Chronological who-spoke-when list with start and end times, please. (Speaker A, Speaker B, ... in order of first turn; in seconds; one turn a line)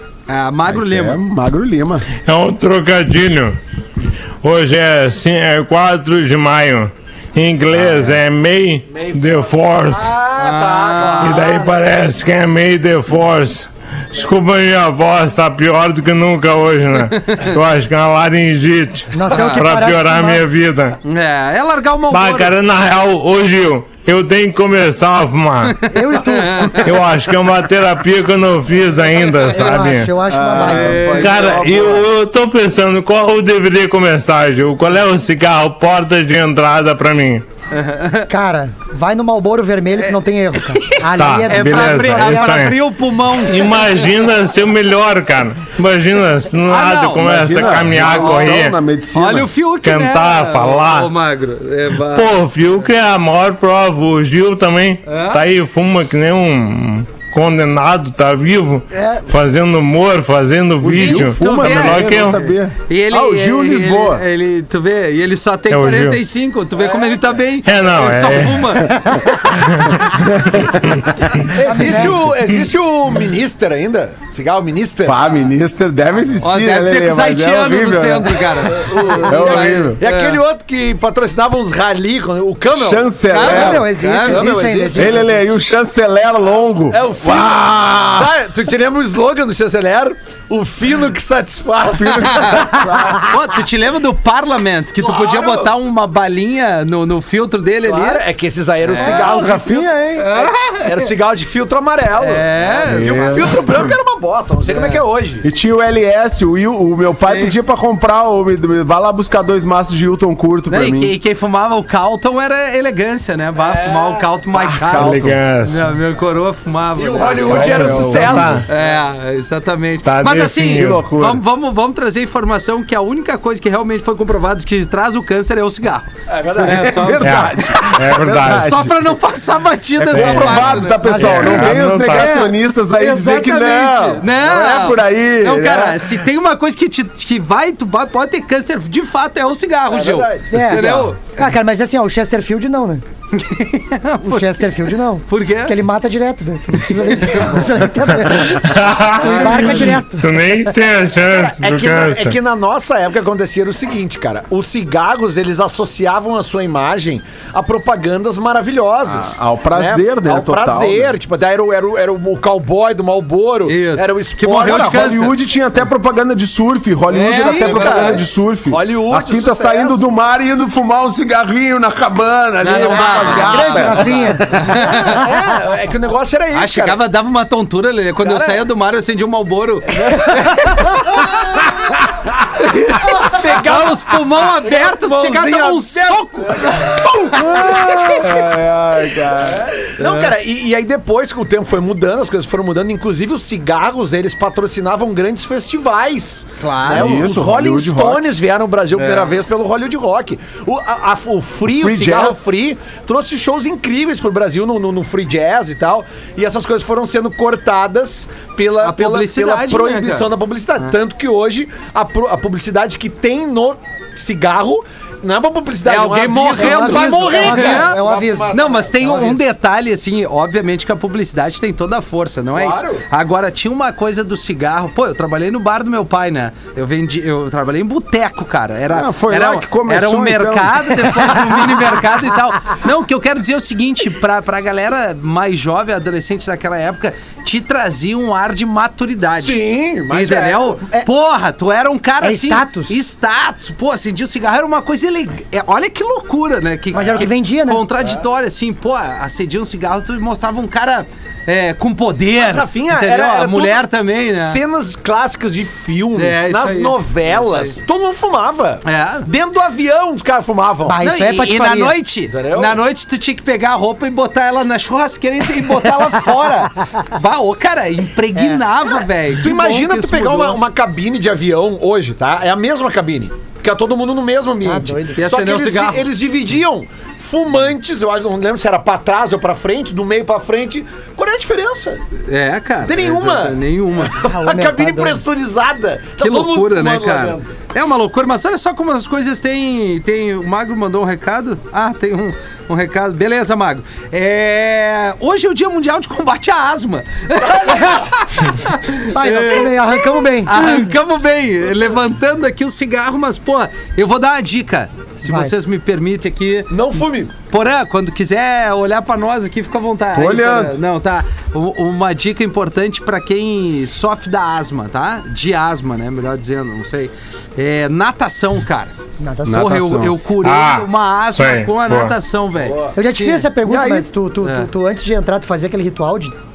Speaker A: 0.3-1.2
Speaker B: 0.7-2.0
Speaker C: 2.2-3.6
Speaker C: 4.4-10.2
Speaker B: 7.7-8.2
Speaker D: 8.9-11.8
Speaker A: 10.4-11.4
Speaker C: 11.2-21.0
Speaker A: 17.1-17.5
Speaker E: 19.1-20.4
Speaker A: 19.3-19.6
Speaker A: 21.0-22.5
Speaker C: 22.1-25.8
Speaker A: 25.8-26.9
Speaker E: 25.9-27.1
Speaker C: 26.8-30.1
Speaker E: 29.4-31.2
Speaker B: 30.3-32.1
Speaker A: 30.6-31.6
Speaker C: 31.2-37.4
Speaker A: 37.7-38.3
Speaker E: 38.3-42.6
Speaker A: 40.8-44.1
Speaker C: 41.1-42.8
Speaker C: 43.4-48.8
Speaker A: 46.7-52.4
Speaker B: 47.1-49.5
Speaker C: 49.8-51.1
Speaker C: 52.0-62.4
Speaker A: 55.1-55.4
Speaker E: 58.9-59.2
Speaker B: 60.8-64.2
Speaker A: 60.9-69.9
Speaker C: 65.7-66.2
Speaker D: 66.8-67.2
Speaker C: 67.6-70.3
Speaker B: 70.3-70.9
Speaker D: 71.5-75.2
Speaker E: 71.6-72.2
Speaker B: 75.0-78.7
Speaker A: 76.4-80.4
Speaker D: 78.7-83.5
Speaker B: 79.2-80.0
Speaker B: 82.7-83.9
Speaker A: 83.3-85.1
Speaker E: 83.3-85.2
Speaker D: 84.1-85.2
Speaker B: 84.9-88.3
Speaker D: 86.9-92.9
Speaker B: 92.0-93.3
Speaker A: 92.1-92.7
Speaker A: 93.2-98.2
Speaker D: 95.0-95.7
Speaker D: 97.8-105.4
Speaker A: 98.8-99.2
Speaker B: 99.0-100.3
Speaker A: 100.2-101.1
Speaker A: 102.2-103.6
Speaker B: 102.8-103.8
Speaker A: 104.7-105.0
Speaker B: 105.4-111.1
Speaker A: 107.2-107.5
Speaker A: 110.7-118.0
Speaker D: 113.6-114.3
Speaker B: 114.5-115.4
Speaker C: 114.9-115.9
Speaker D: 117.0-119.0
Speaker C: 117.4-118.7
Speaker B: 117.5-118.7
Speaker A: 118.7-127.8
Speaker C: 120.0-121.0
Speaker B: 120.7-121.4
Speaker D: 126.3-127.3
Speaker B: 126.6-129.2
Speaker C: 127.2-128.8
Speaker A: 128.4-131.0
Speaker B: 130.0-136.2
Speaker C: 130.1-132.4
Speaker E: 131.0-132.4
Speaker A: 133.0-141.2
Speaker D: 139.9-141.0
Speaker E: 140.5-143.0
Speaker A: 143.3-145.8
Speaker E: 144.2-150.6
Speaker A: 146.9-147.7
Speaker D: 147.3-147.7
Speaker C: 148.2-152.4
Speaker A: 149.2-150.0
Speaker D: 151.2-165.0
Speaker B: 159.1-161.1
Speaker A: 163.7-165.3
Speaker B: 164.5-175.0
Speaker A: 167.1-168.2
Speaker D: 167.2-170.0
Speaker A: 172.6-175.2
Speaker E: 173.2-174.5
Speaker D: 174.8-177.0
Speaker A: 176.5-181.8
Speaker D: 178.2-178.6
Speaker A: 182.5-188.2
Speaker D: 182.9-188.2
Speaker B: 187.3-189.7
Speaker D: 189.7-219.4
Speaker A: 190.0-190.3
Speaker A: 196.6-197.4
Speaker B: 196.9-198.2
Speaker A: 198.9-199.3
Speaker B: 201.6-202.6
Speaker A: 208.8-210.9
Speaker A: 215.8-239.6
Speaker E: 216.5-219.3
Speaker D: 222.5-223.0
Speaker B: 228.9-231.4
Speaker D: 239.3-240.8
Speaker A: 240.1-254.6
Speaker E: 242.2-243.0
Speaker E: 246.9-247.8
Speaker D: 246.9-247.2
Speaker D: 252.4-261.0
Speaker A: 256.1-257.8
Speaker A: 258.8-259.2
Speaker E: 260.9-261.9
Speaker A: 261.0-270.6
Speaker D: 262.3-262.8
Speaker E: 268.3-268.6
Speaker D: 269.4-282.0
Speaker E: 274.6-275.2
Speaker A: 275.2-276.1
Speaker A: 282.3-284.2
Speaker D: 282.8-287.5
Speaker E: 284.2-285.2
Speaker A: 286.2-306.8
Speaker D: 297.4-298.2
Speaker E: 299.1-300.9
Speaker E: 305.2-305.5
Speaker D: 306.7-307.3
Speaker A: 307.5-318.9
Speaker B: 310.1-310.8
Speaker E: 319.2-319.7
Speaker B: 319.4-320.2
Speaker A: 319.5-323.5
Speaker C: 320.4-322.1
Speaker D: 322.6-322.9
Speaker E: 322.9-326.3
Speaker B: 323.6-324.1
Speaker A: 324.4-324.7